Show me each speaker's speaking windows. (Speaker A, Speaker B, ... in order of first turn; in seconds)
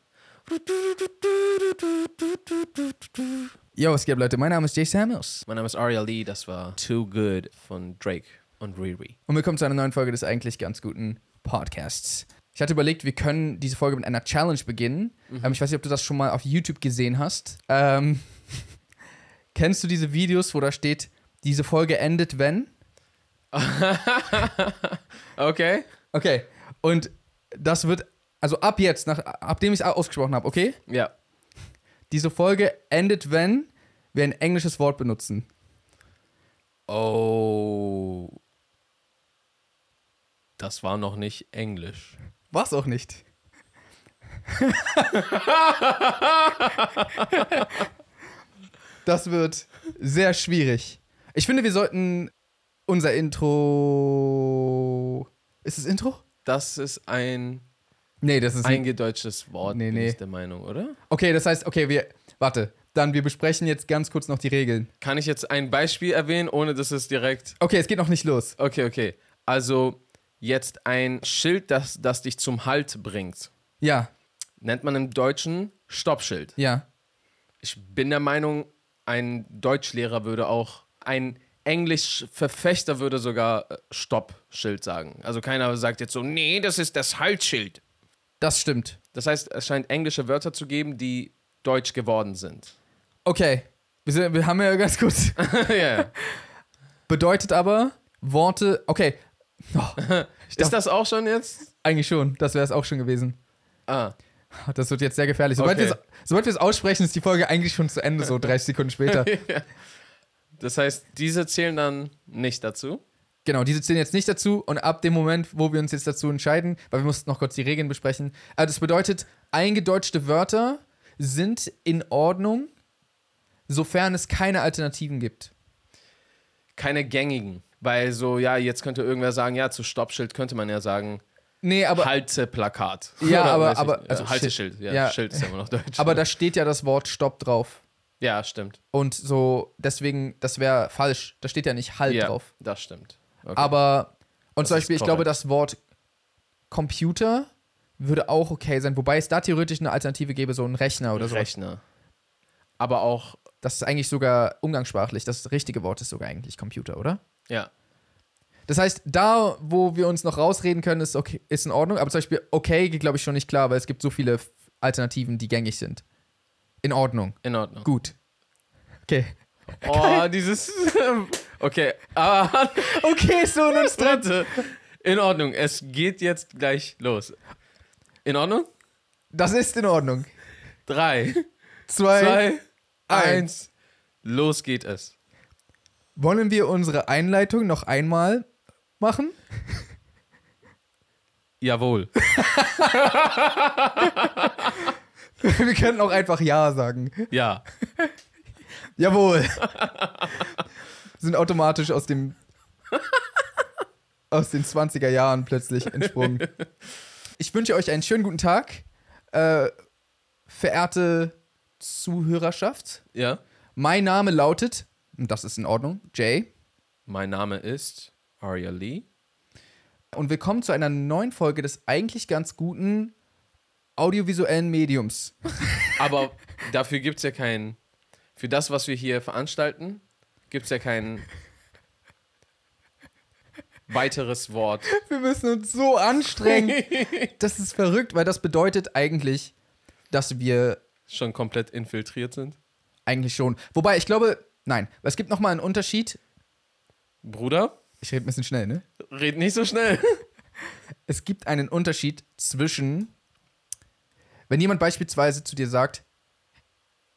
Speaker A: 0.5-3.4, 5.5-9.2, 15.3-15.6, 23.5-25.9, 36.9-38.4, 40.6-42.1, 45.2-47.7, 56.5-57.6, 58.6-61.0, 65.0-67.6, 68.6-73.5, 74.6-76.6, 77.6-87.8, 89.1-92.8, 95.4-96.1, 100.0-101.7, 103.9-104.2, 105.6-106.0, 109.1-109.7, 110.6-113.0, 126.8-131.2, 131.9-136.2, 138.2-138.8, 142.1-143.8, 144.6-145.3, 151.1-151.8, 152.8-153.4, 167.4-167.9, 169.8-177.4, 178.2-178.7, 180.9-181.4, 182.1-183.7, 184.2-185.1, 191.6-192.2, 192.7-194.9, 197.3-197.6, 199.8-200.5, 213.1-213.4, 217.1-219.1, 226.0-227.8, 228.4-231.3, 233.9-234.9, 236.4-237.3, 241.1-242.6, 247.2-247.8, 249.1-250.2
Speaker B: 3.8-5.5, 9.3-18.7, 19.5-22.7, 26.1-30.8, 32.1-35.5, 42.5-43.2, 44.6-45.2, 49.0-52.3, 52.9-56.2, 58.2-58.9, 59.6-60.2, 61.1-64.9, 67.6-68.5, 73.8-74.1, 76.6-76.8, 88.4-89.0, 93.2-95.5, 97.1-100.8, 101.8-103.4, 104.6-109.3, 113.5-122.7, 123.7-125.5, 131.6-132.1, 133.2-137.8, 138.9-142.5, 143.6-145.8, 146.7-151.5, 153.6-157.2, 158.7-166.0, 166.8-168.2, 169.1-170.3, 172.8-174.4, 179.3-180.3, 181.9-182.5, 183.1-183.5, 186.2-188.5, 189.0-189.4, 192.4-192.9, 195.4-197.3, 199.0-199.7, 201.2-202.4, 204.3-206.5, 207.4-209.7, 210.5-213.0, 213.8-216.5, 220.1-223.1, 224.0-225.5, 234.9-239.5, 240.1-240.8, 243.1-246.2, 248.0-248.8, 251.1-253.1, 254.5-256.0